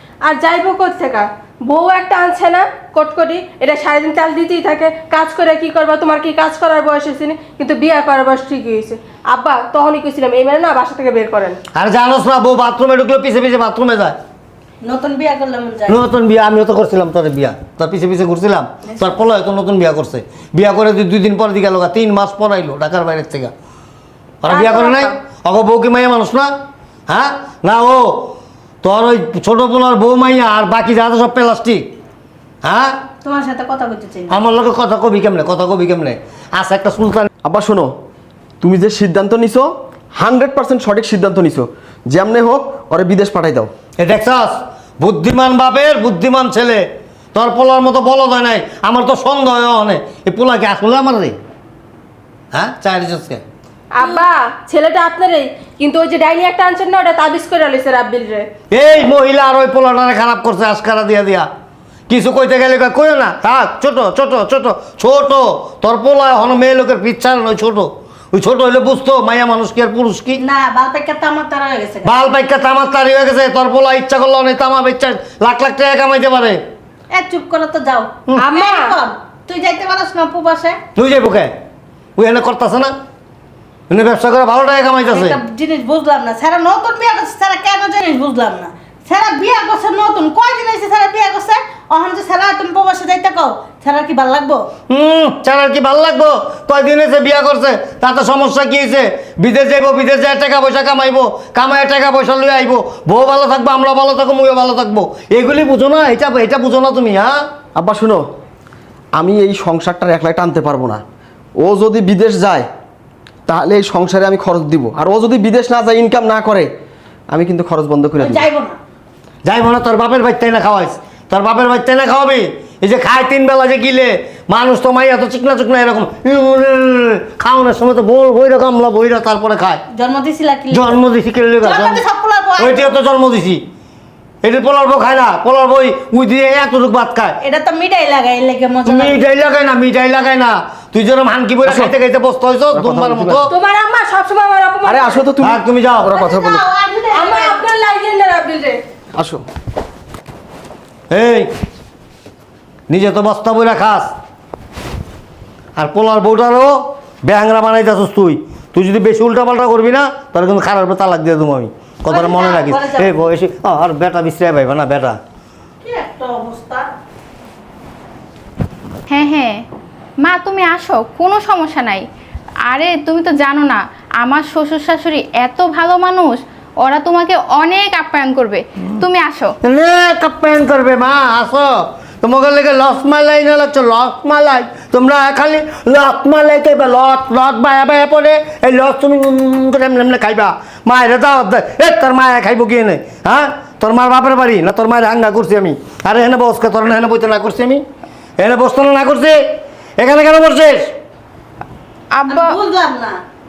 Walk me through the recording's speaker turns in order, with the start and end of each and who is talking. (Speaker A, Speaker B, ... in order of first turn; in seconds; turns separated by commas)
Speaker A: 0.2-11.6, Speaker B: 11.7-14.2, Speaker C: 14.8-16.0, Speaker B: 15.9-23.5, Speaker C: 18.9-19.1, Speaker B: 24.4-26.5, Speaker C: 24.5-25.1, Speaker B: 27.1-31.9, Speaker B: 32.6-32.9, Speaker C: 33.2-34.4, Speaker B: 34.3-37.3, Speaker D: 37.4-37.9, Speaker D: 38.6-43.7, Speaker B: 44.0-51.4, Speaker B: 52.5-53.4, Speaker A: 53.9-58.5, Speaker B: 58.7-61.5, Speaker B: 62.1-70.4, Speaker C: 70.3-72.1, Speaker B: 72.0-76.6, Speaker C: 77.1-80.8, Speaker A: 78.5-78.9, Speaker B: 81.0-81.5, Speaker B: 82.2-82.9, Speaker B: 83.9-85.4, Speaker C: 85.1-94.7, Speaker B: 94.9-107.4, Speaker D: 107.7-108.2, Speaker D: 109.1-111.0, Speaker D: 111.6-112.7, Speaker D: 113.5-116.7, Speaker D: 117.3-118.5, Speaker C: 118.2-118.8, Speaker B: 119.4-129.8, Speaker C: 129.9-131.0, Speaker B: 130.7-132.0, Speaker C: 131.6-132.9, Speaker B: 132.6-133.6, Speaker B: 134.4-137.4, Speaker C: 137.4-139.2, Speaker B: 138.8-143.5, Speaker D: 141.6-141.9, Speaker D: 142.7-143.5, Speaker A: 143.5-145.3, Speaker D: 144.8-146.6, Speaker B: 145.4-146.1, Speaker C: 146.1-147.6, Speaker A: 147.1-148.8, Speaker D: 149.1-149.4, Speaker B: 151.1-151.5, Speaker B: 152.9-154.1, Speaker B: 155.8-165.2, Speaker C: 162.1-163.3, Speaker C: 165.8-166.9, Speaker E: 169.1-169.6, Speaker E: 170.2-172.1, Speaker E: 172.6-179.6, Speaker B: 179.6-197.8, Speaker B: 198.4-200.9, Speaker E: 202.1-202.6, Speaker C: 202.3-203.2